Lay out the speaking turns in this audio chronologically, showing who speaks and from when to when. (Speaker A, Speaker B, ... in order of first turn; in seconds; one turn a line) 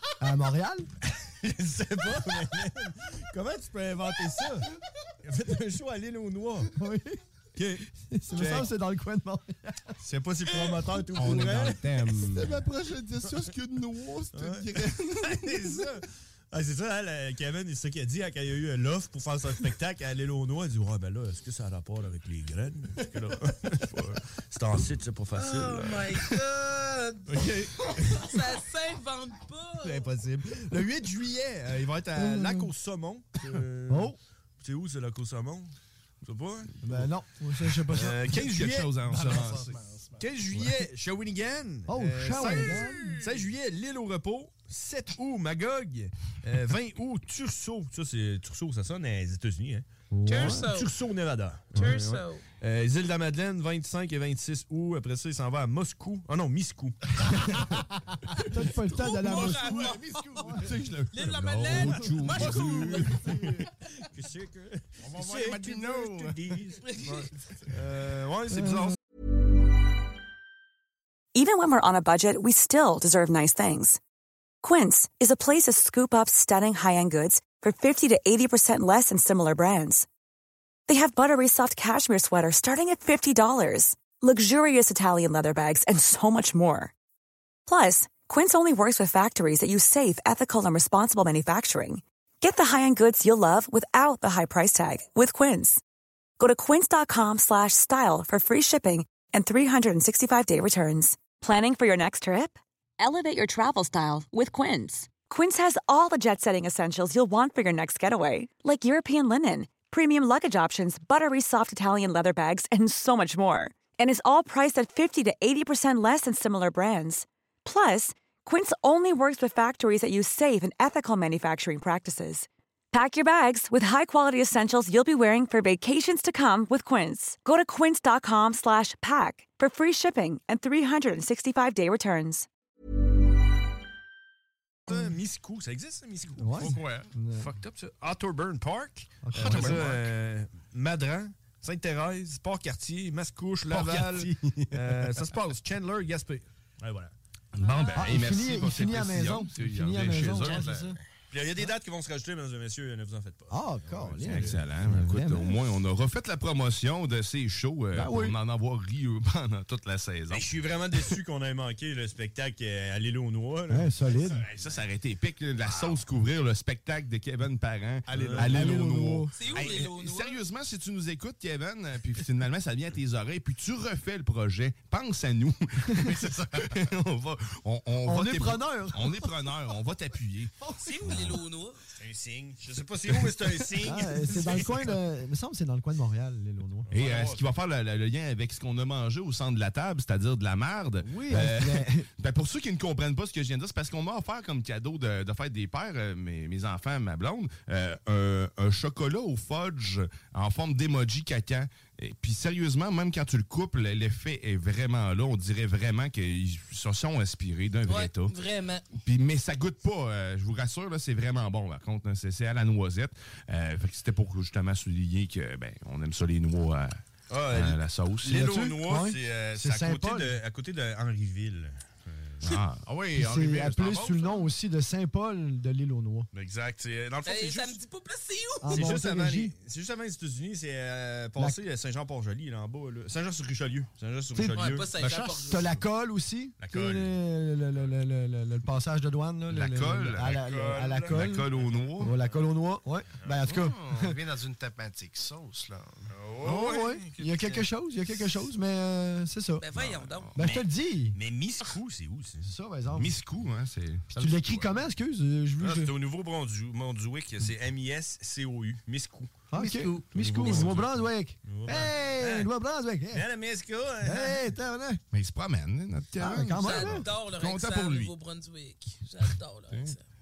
Speaker A: 0.2-0.9
Speaker B: 1.1-4.7
Speaker B: 5.2-6.7
Speaker A: 6.8-7.2
Speaker B: 7.5-8.7
Speaker A: 8.0-10.0
Speaker B: 10.0-12.3
Speaker C: 11.2-15.6
Speaker D: 11.6-12.4
Speaker B: 14.3-26.4
Speaker E: 25.4-27.4
Speaker B: 27.3-28.5
Speaker E: 28.0-30.1
Speaker B: 29.8-37.1
Speaker A: 32.1-32.7
Speaker A: 33.9-34.2
Speaker A: 36.8-38.1
Speaker B: 37.6-39.4
Speaker C: 38.1-39.8
Speaker D: 39.3-40.2
Speaker B: 40.2-57.8
Speaker A: 41.9-43.2
Speaker A: 50.1-50.7
Speaker E: 50.2-50.9
Speaker E: 51.7-52.4
Speaker A: 58.4-60.8
Speaker E: 58.7-60.6
Speaker C: 60.4-63.5
Speaker E: 61.1-63.2
Speaker B: 61.7-69.0
Speaker D: 65.0-66.3
Speaker E: 66.8-67.2
Speaker F: 71.3-74.0
Speaker F: 74.6-80.1
Speaker F: 80.9-86.9
Speaker F: 87.7-95.8
Speaker F: 96.4-132.5
Speaker B: 134.8-147.1
Speaker A: 136.3-137.5
Speaker A: 139.2-139.8
Speaker C: 143.7-144.2
Speaker A: 144.2-144.7
Speaker C: 147.5-150.8
Speaker A: 148.0-151.0
Speaker B: 151.3-154.6
Speaker A: 153.5-155.6
Speaker C: 154.2-161.2
Speaker A: 157.9-158.4
Speaker B: 160.3-163.9
Speaker A: 163.7-164.4
Speaker C: 164.4-181.4
Speaker B: 168.1-168.7
Speaker A: 168.5-169.3
Speaker E: 169.3-170.4
Speaker A: 175.9-176.2
Speaker A: 178.0-179.5
Speaker A: 180.6-180.9
Speaker E: 180.8-181.8
Speaker B: 181.9-184.9
Speaker C: 183.5-184.8
Speaker A: 183.8-186.9
Speaker B: 186.9-187.4
Speaker C: 186.9-208.4
Speaker A: 191.0-192.1
Speaker E: 207.9-208.9
Speaker C: 208.9-216.9
Speaker B: 217.3-222.4
Speaker C: 217.5-218.3
Speaker A: 218.3-220.4
Speaker C: 222.4-222.8
Speaker A: 223.1-226.3
Speaker B: 226.3-227.8
Speaker E: 227.2-228.9
Speaker A: 228.6-229.5
Speaker B: 228.6-235.8
Speaker A: 234.3-234.6
Speaker E: 234.5-235.8
Speaker D: 235.1-235.5
Speaker A: 235.5-244.2
Speaker B: 236.6-237.2
Speaker C: 239.5-240.3
Speaker B: 240.2-241.8
Speaker C: 241.1-242.1
Speaker D: 243.5-246.2
Speaker B: 246.1-247.2
Speaker A: 246.4-249.7
Speaker D: 247.2-247.6
Speaker E: 249.6-250.6
Speaker C: 249.7-250.4
Speaker A: 250.3-251.2
Speaker B: 250.3-252.5
Speaker A: 252.4-253.2
Speaker C: 252.9-254.2
Speaker A: 254.1-255.9
Speaker D: 254.2-254.8
Speaker B: 255.6-262.5
Speaker A: 259.5-263.3
Speaker D: 259.6-260.0
Speaker B: 263.1-264.4
Speaker A: 264.0-265.0
Speaker C: 265.1-268.1
Speaker A: 266.2-267.1
Speaker E: 266.6-270.0
Speaker C: 269.7-270.0